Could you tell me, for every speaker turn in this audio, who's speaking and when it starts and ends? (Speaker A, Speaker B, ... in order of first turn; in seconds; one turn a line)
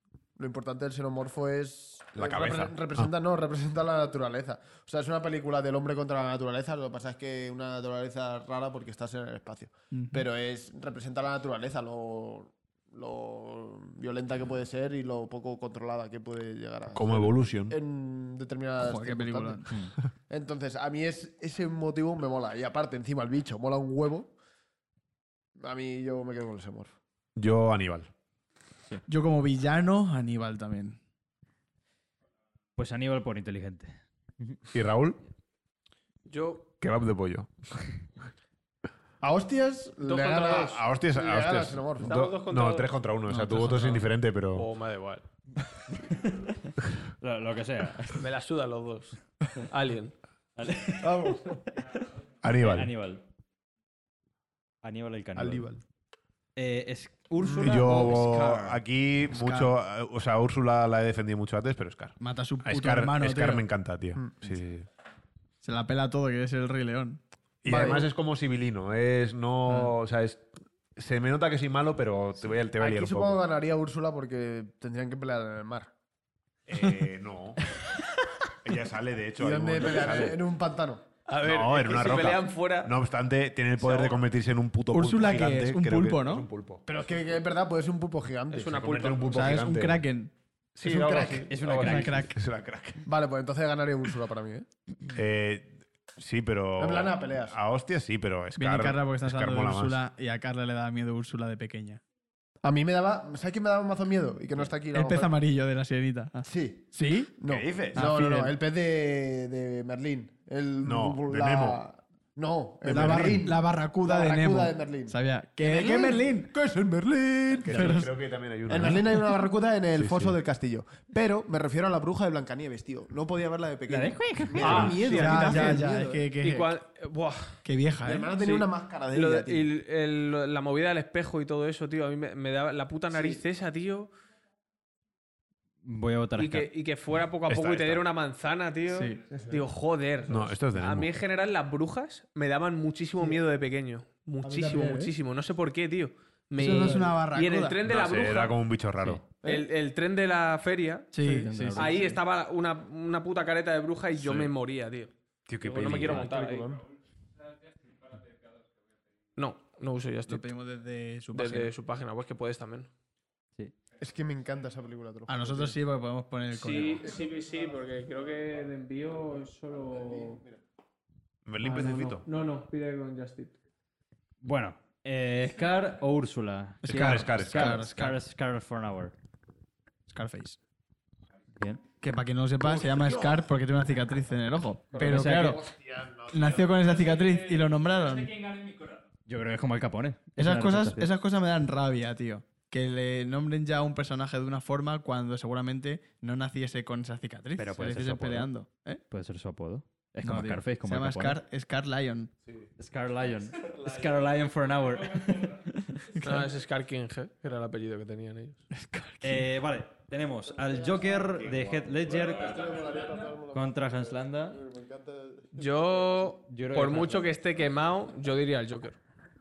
Speaker A: 0.3-19.6
Speaker B: 2.1-3.1
Speaker C: 9.9-10.2
Speaker B: 16.9-17.8
Speaker C: 18.8-19.8
Speaker A: 20.3-24.3
Speaker A: 25.6-26.9
Speaker B: 27.4-28.1
Speaker C: 29.1-31.0
Speaker D: 32.8-34.6
Speaker B: 34.7-35.2
Speaker E: 36.3-36.7
Speaker B: 36.8-37.5
Speaker A: 39.2-42.2
Speaker E: 40.0-40.8
Speaker B: 40.6-44.7
Speaker E: 42.0-42.9
Speaker C: 43.3-43.9
Speaker E: 43.8-45.2
Speaker D: 45.9-48.2
Speaker E: 48.2-50.1
Speaker D: 50.6-52.0
Speaker A: 51.0-51.6
Speaker B: 52.4-52.9
Speaker D: 52.6-53.2
Speaker D: 54.8-55.7
Speaker A: 55.4-55.8
Speaker D: 56.5-58.8
Speaker A: 57.4-58.1
Speaker B: 57.5-64.9
Speaker C: 59.3-59.7
Speaker C: 62.2-63.7
Speaker A: 64.1-64.6
Speaker C: 65.6-67.2
Speaker B: 67.6-73.4
Speaker A: 67.7-68.1
Speaker C: 69.7-69.9
Speaker A: 72.8-75.9
Speaker B: 76.7-77.6
Speaker B: 78.6-80.4
Speaker A: 79.4-81.0
Speaker E: 81.3-82.9
Speaker B: 81.4-86.8
Speaker E: 83.8-84.2
Speaker C: 84.9-86.5
Speaker A: 86.9-89.2
Speaker E: 88.5-89.5
Speaker B: 88.7-90.0
Speaker C: 89.3-90.3
Speaker B: 90.8-93.0
Speaker A: 90.8-91.5
Speaker C: 91.1-92.4
Speaker D: 91.5-92.3
Speaker A: 93.0-94.7
Speaker B: 95.1-100.0
Speaker A: 96.8-97.6
Speaker C: 98.5-102.0
Speaker A: 102.6-105.3
Speaker C: 104.9-107.4
Speaker A: 106.4-117.9
Speaker B: 107.5-108.1
Speaker C: 107.9-108.5
Speaker B: 110.8-111.8
Speaker B: 112.8-113.5
Speaker C: 112.8-116.5
Speaker B: 117.6-119.2
Speaker D: 117.7-118.0
Speaker C: 117.7-118.1
Speaker A: 118.7-126.2
Speaker B: 119.9-120.3
Speaker D: 123.9-124.9
Speaker E: 124.6-125.8
Speaker B: 124.6-125.0
Speaker C: 125.0-126.7
Speaker E: 126.4-127.6
Speaker C: 127.6-128.3
Speaker A: 128.0-129.7
Speaker E: 128.3-134.1
Speaker A: 133.1-133.4
Speaker D: 135.8-136.7
Speaker E: 136.4-148.6
Speaker B: 137.5-138.0
Speaker C: 138.9-139.2
Speaker A: 139.3-139.6
Speaker B: 140.3-141.1
Speaker A: 144.4-145.0
Speaker C: 144.6-145.0
Speaker C: 146.6-147.8
Speaker B: 147.8-149.3
Speaker E: 149.4-156.8
Speaker C: 151.1-152.2
Speaker D: 151.2-152.1
Speaker B: 154.2-154.5
Speaker B: 155.5-156.3
Speaker A: 156.2-156.8
Speaker E: 159.3-160.5
Speaker C: 160.3-161.7
Speaker E: 161.3-162.9
Speaker A: 164.0-165.7
Speaker C: 165.3-167.1
Speaker E: 166.5-170.4
Speaker A: 167.0-168.2
Speaker A: 169.7-170.6
Speaker B: 171.4-172.2
Speaker E: 171.6-173.6
Speaker D: 174.4-179.1
Speaker C: 176.8-178.2
Speaker B: 176.9-177.9
Speaker C: 180.1-180.6
Speaker C: 182.0-185.6
Speaker A: 182.6-183.5
Speaker E: 184.9-185.2
Speaker D: 185.0-185.6
Speaker A: 185.1-187.0
Speaker C: 186.3-188.5
Speaker D: 189.2-191.1
Speaker C: 190.4-199.0
Speaker D: 197.6-198.5
Speaker D: 199.1-201.4
Speaker C: 200.2-202.3
Speaker D: 202.8-206.1
Speaker C: 206.1-206.5
Speaker E: 206.2-208.6
Speaker C: 208.7-209.5
Speaker D: 209.2-212.8
Speaker A: 210.6-215.9
Speaker B: 211.4-211.8
Speaker D: 213.5-214.6
Speaker E: 215.5-219.0
Speaker D: 216.5-217.3